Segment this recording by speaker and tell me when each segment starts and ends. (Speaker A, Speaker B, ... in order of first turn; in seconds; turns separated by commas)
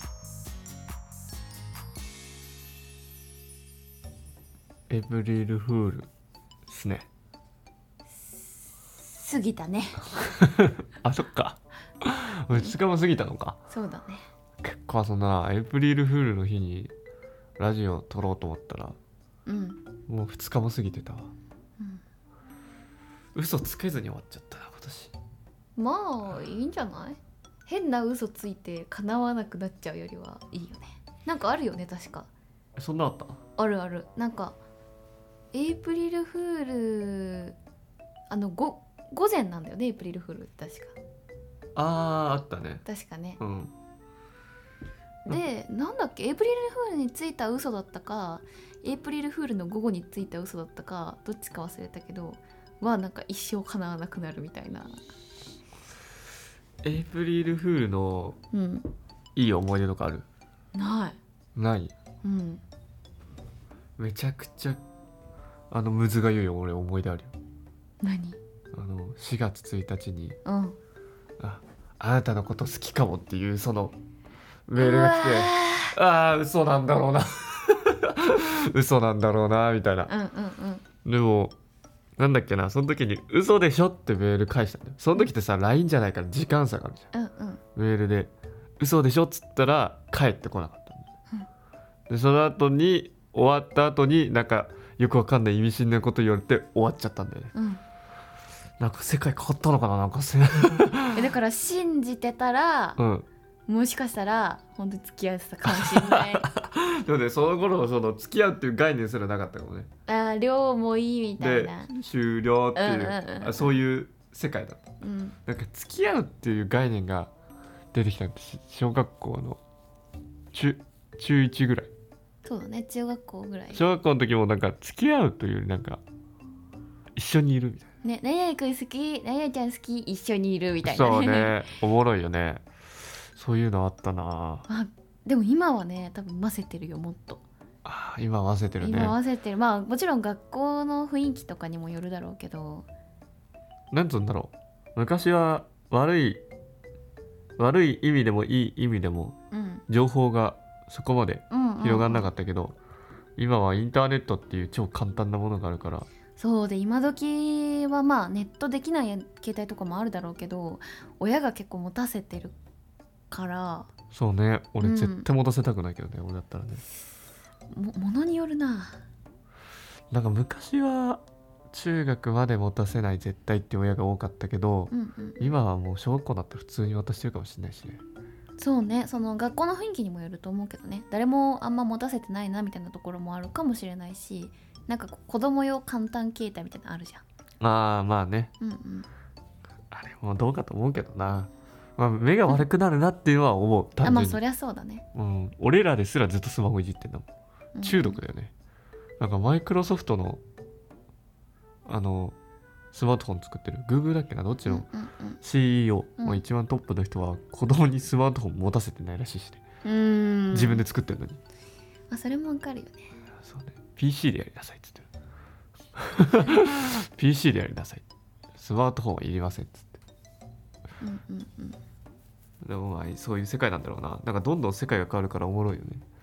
Speaker A: 4.9-6.1, Speaker A: 6.7-7.1, Speaker B: 9.0-10.1, Speaker A: 10.4-13.6, Speaker B: 13.7-14.2, Speaker A: 14.6-16.9, Speaker A: 17.6-19.0, Speaker B: 19.5-19.8, Speaker A: 20.1-21.3, Speaker A: 23.3-25.1, Speaker B: 25.8-32.3, Speaker A: 32.8-33.4, Speaker B: 33.6-34.6, Speaker B: 35.5-37.5, Speaker B: 38.3-41.0, Speaker A: 41.8-42.8, Speaker B: 42.9-43.4, Speaker A: 43.4-43.7, Speaker B: 45.3-55.0, Speaker A: 56.8-58.4, Speaker B: 58.5-58.9, Speaker A: 59.4-60.3, Speaker B: 60.7-61.2, Speaker A: 61.5-61.9, Speaker B: 62.2-62.6, Speaker A: 64.0-64.8, Speaker A: 65.7-67.3, Speaker B: 68.0-68.4, Speaker A: 68.7-70.4, Speaker B: 70.5-70.8, Speaker A: 71.4-74.0, Speaker A: 74.7-80.1, Speaker B: 74.8-76.0, Speaker B: 80.1-80.8, Speaker A: 81.0-81.5, Speaker A: 82.2-87.1, Speaker B: 87.1-87.6, Speaker A: 87.8-91.1, Speaker A: 92.1-97.5, Speaker B: 97.5-97.8, Speaker A: 98.8-101.2, Speaker B: 101.1-103.0, Speaker A: 103.0-103.3, Speaker B: 103.7-106.5, Speaker A: 105.7-109.9, Speaker B: 110.1-111.9, Speaker A: 111.4-114.8, Speaker B: 112.8-113.8, Speaker B: 115.0-115.4, Speaker A: 115.5-117.3, Speaker A: 117.9-119.6, Speaker A: 120.5-121.9, Speaker B: 122.5-123.8, Speaker A: 123.7-126.0, Speaker A: 127.2-127.9, Speaker B: 128.0-131.6, Speaker A: 130.8-132.6, Speaker A: 133.3-134.7, Speaker B: 134.7-137.4, Speaker A: 137.8-139.2, Speaker B: 138.8-142.9, Speaker A: 143.9-146.4, Speaker A: 147.6-149.3, Speaker B: 149.5-149.8, Speaker A: 149.9-152.8, Speaker B: 151.5-152.3, Speaker A: 153.4-156.1, Speaker B: 156.4-162.6, Speaker B: 163.3-163.9, Speaker A: 164.1-166.8, Speaker B: 164.8-165.3, Speaker B: 167.7-169.0, Speaker A: 170.1-178.0, Speaker B: 174.9-175.5, Speaker B: 178.6-187.2, Speaker A: 187.6-188.5, Speaker B: 188.6-189.1, Speaker A: 189.9-194.4, Speaker B: 194.0-195.0, Speaker A: 195.2-197.3, Speaker B: 197.8-198.2, Speaker A: 197.8-198.5, Speaker A: 199.2-200.4, Speaker A: 201.9-202.4, Speaker A: 202.9-204.9, Speaker B: 204.7-205.4, Speaker A: 205.4-209.6, Speaker B: 209.8-210.8, Speaker A: 210.5-211.4, Speaker B: 212.1-213.1, Speaker A: 213.4-215.1, Speaker A: 216.0-218.0, Speaker A: 218.6-220.0, Speaker B: 221.0-221.8, Speaker A: 222.6-226.0